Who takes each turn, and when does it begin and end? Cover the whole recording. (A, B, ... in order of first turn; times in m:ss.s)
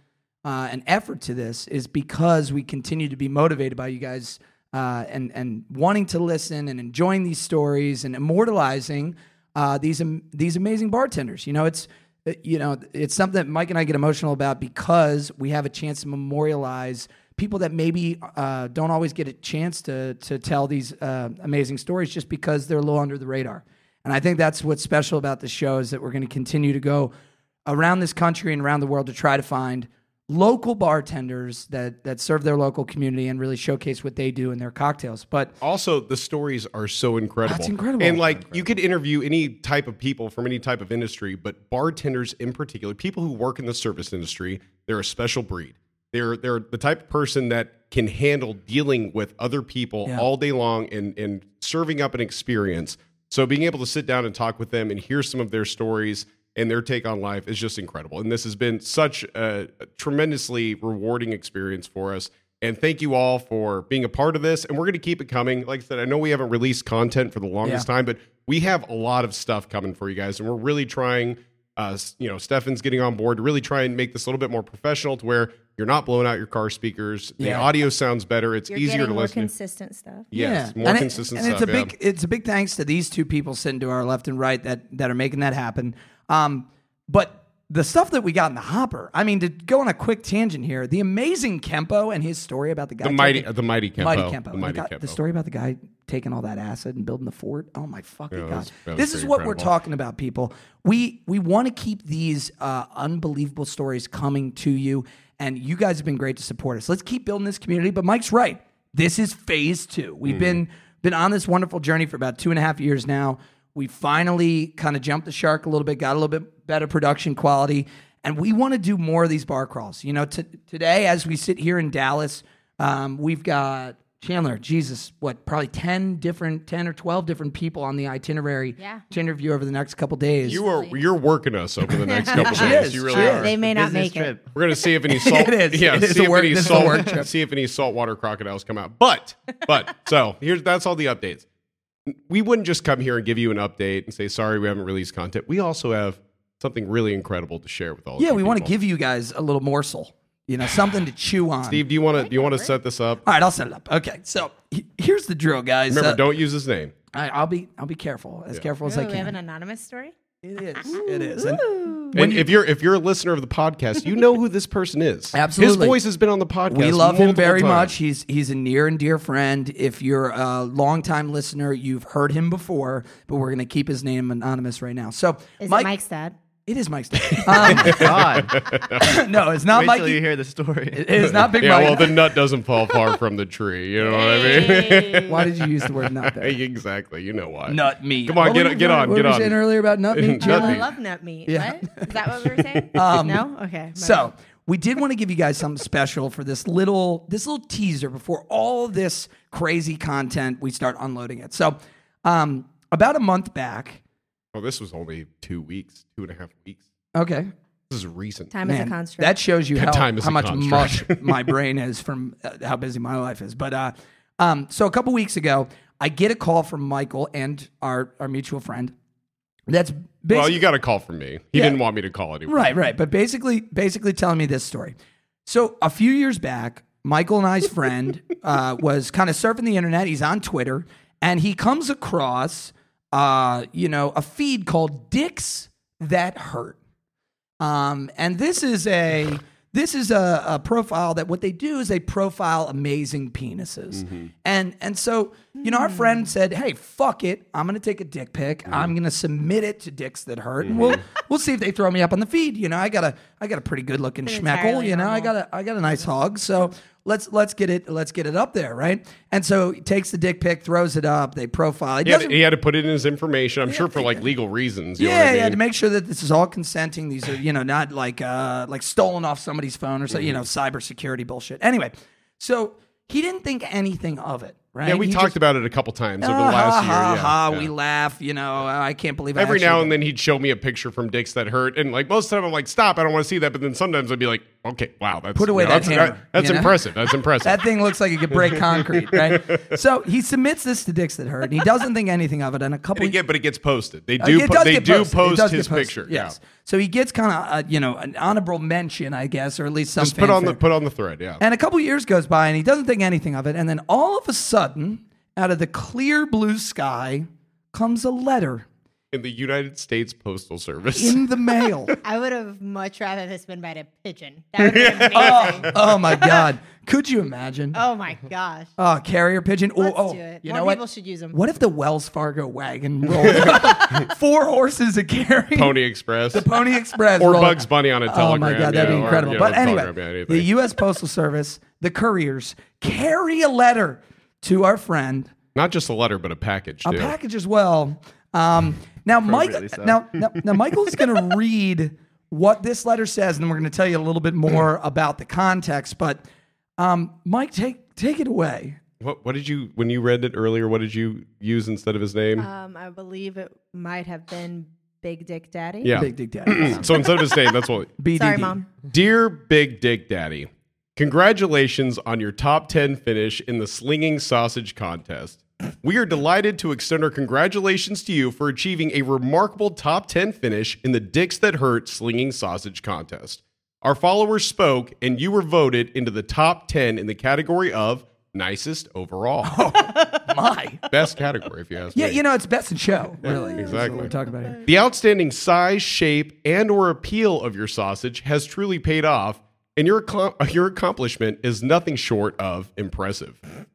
0:00.4-0:27.1 A
0:27.6-0:35.5 A
0:35.6-1:19.5 B
0:37.4-0:38.7 A
1:17.4-1:17.7 A
1:18.7-1:20.3 C
1:20.3-1:21.9 B
1:20.3-1:33.5 A
1:33.0-1:35.2 B
1:34.0-2:10.6 A
1:38.3-1:39.7 B
1:50.3-1:50.6 B
2:08.8-2:09.0 C
2:10.4-2:11.0 C
2:10.5-2:13.5 B
2:11.9-2:14.3 C
2:12.3-2:13.5 A
2:13.2-2:14.5 D
2:14.5-2:21.4 B
2:15.1-2:17.3 A
2:22.1-2:28.7 B
2:28.2-2:31.8 A
2:31.7-2:33.2 B
2:32.1-2:32.7 C
2:33.2-2:36.2 A
2:35.9-2:36.9 B
2:37.1-2:39.3 A
2:38.8-2:40.1 C
2:40.4-2:42.5 A
2:40.8-2:42.1 C
2:42.1-2:47.9 B
2:45.3-2:46.0 A
2:46.7-2:55.9 A
2:55.6-2:56.3 C
2:56.6-2:58.2 A
2:57.3-2:59.2 B
2:57.7-2:58.6 D
2:59.0-3:00.2 A
2:59.7-3:01.3 D
3:00.9-3:02.2 A
3:01.4-3:05.5 B
3:04.0-3:05.4 C
3:05.3-3:06.6 A
3:06.3-3:10.8 B
3:07.7-3:10.8 A
3:10.4-3:14.3 C
3:11.5-3:12.1 A
3:12.9-3:24.0 A
3:24.5-3:26.8 B
3:27.1-3:27.5 A
3:27.9-3:28.5 B
3:28.5-3:29.4 C
3:28.6-3:38.9 A
3:29.7-3:31.4 B
3:39.7-3:40.6 A
3:40.3-3:42.7 B
3:42.5-3:44.9 A
3:45.4-3:56.8 A
3:57.6-4:22.4 A
4:03.9-4:04.3 B
4:05.6-4:06.3 C
4:10.6-4:11.0 B
4:14.2-4:15.3 C
4:22.0-4:25.6 B
4:23.7-4:24.2 A
4:25.0-4:35.4 A
4:30.1-4:30.4 B
4:34.8-4:37.7 B
4:36.2-4:40.0 A
4:39.4-4:47.6 B
4:45.4-4:46.7 A
4:47.4-4:53.2 A
4:48.3-4:49.6 B
4:52.9-4:56.3 B
4:54.2-5:00.6 A
5:00.0-5:01.4 B
5:01.4-5:08.6 A
5:09.1-5:11.2 B
5:10.9-5:11.9 A
5:12.0-5:16.4 C
5:14.6-5:15.8 B
5:15.1-5:17.8 A
5:17.7-5:18.7 C
5:18.8-5:20.8 A
5:19.8-5:21.4 C
5:21.3-5:25.8 A
5:23.2-5:24.1 B
5:25.5-5:26.5 B
5:26.3-5:35.3 A
5:27.2-5:30.5 B
5:35.5-5:37.1 B
5:36.8-5:46.2 A
5:39.2-5:40.0 D
5:46.8-5:48.8 A
5:49.0-5:52.5 B
5:52.4-5:56.0 C
5:55.8-5:57.9 B
5:55.9-5:56.8 A
5:56.6-5:56.9 D
5:56.8-5:57.4 C
5:58.0-5:58.6 A
5:58.1-5:58.7 C
5:58.9-6:19.6 B
6:19.4-6:20.8 A
6:19.8-6:20.2 C
6:20.9-6:22.2 B
6:21.9-6:24.6 A
6:23.2-6:24.1 B
6:23.3-6:24.6 C
6:24.6-6:33.4 B